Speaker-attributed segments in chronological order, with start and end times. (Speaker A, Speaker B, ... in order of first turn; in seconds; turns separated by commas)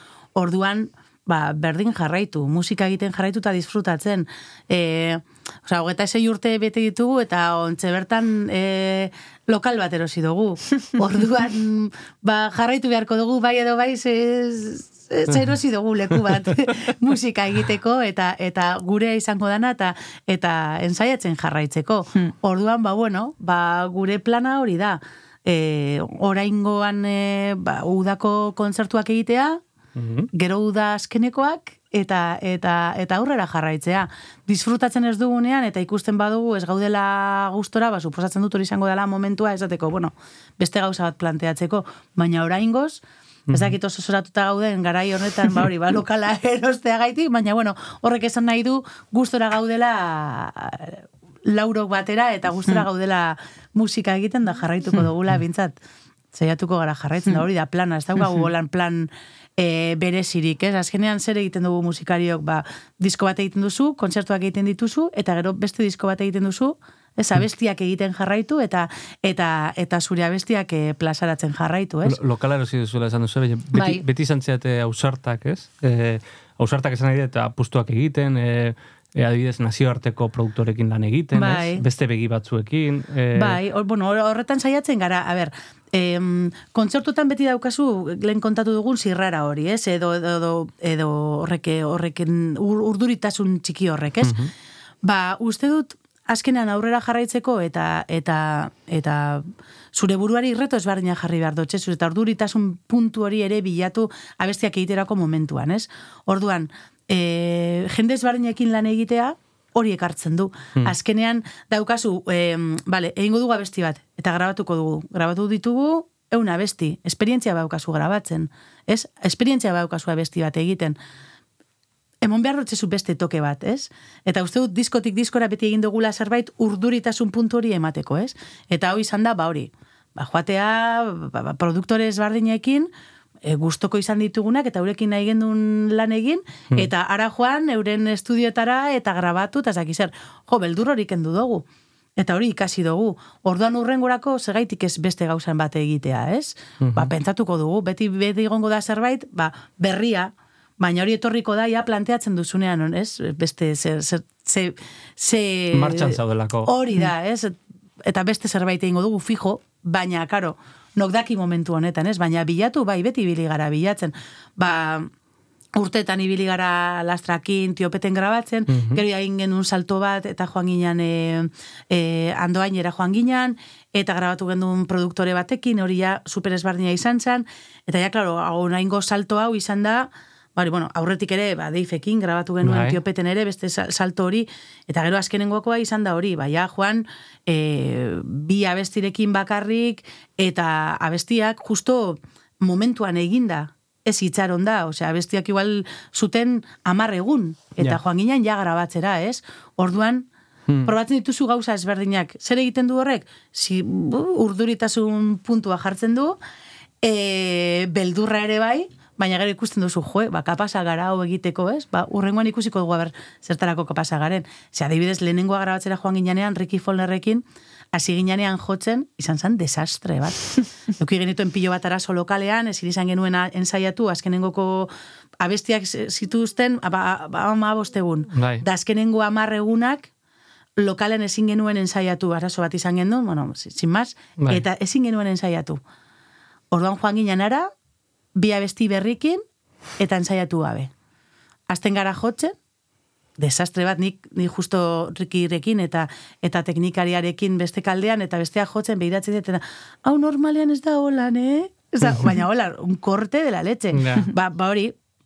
Speaker A: 0.3-29.6, Speaker B: 30.0-30.3, Speaker A: 30.3-55.8, Speaker B: 43.5-43.8, Speaker A: 56.3-72.2, Speaker B: 72.0-83.6, Speaker A: 73.7-74.0, Speaker A: 81.3-81.8, Speaker A: 83.3-94.4, Speaker B: 94.2-94.5, Speaker A: 95.0-121.0, Speaker A: 122.2-132.9, Speaker A: 133.4-141.6, Speaker A: 142.2-165.1, Speaker B: 146.8-147.1, Speaker B: 155.7-156.7, Speaker A: 165.8-200.3, Speaker B: 168.7-169.0, Speaker B: 182.6-183.0, Speaker B: 200.7-200.9, Speaker A: 200.9-206.4, Speaker A: 207.0-230.1, Speaker B: 228.3-228.6, Speaker A: 230.8-235.8, Speaker A: 236.7-237.7, Speaker A: 238.3-239.4, Speaker A: 240.0-240.9, Speaker A: 241.7-242.6, Speaker A: 243.4-254.9, Speaker B: 252.0-252.4, Speaker B: 253.9-254.3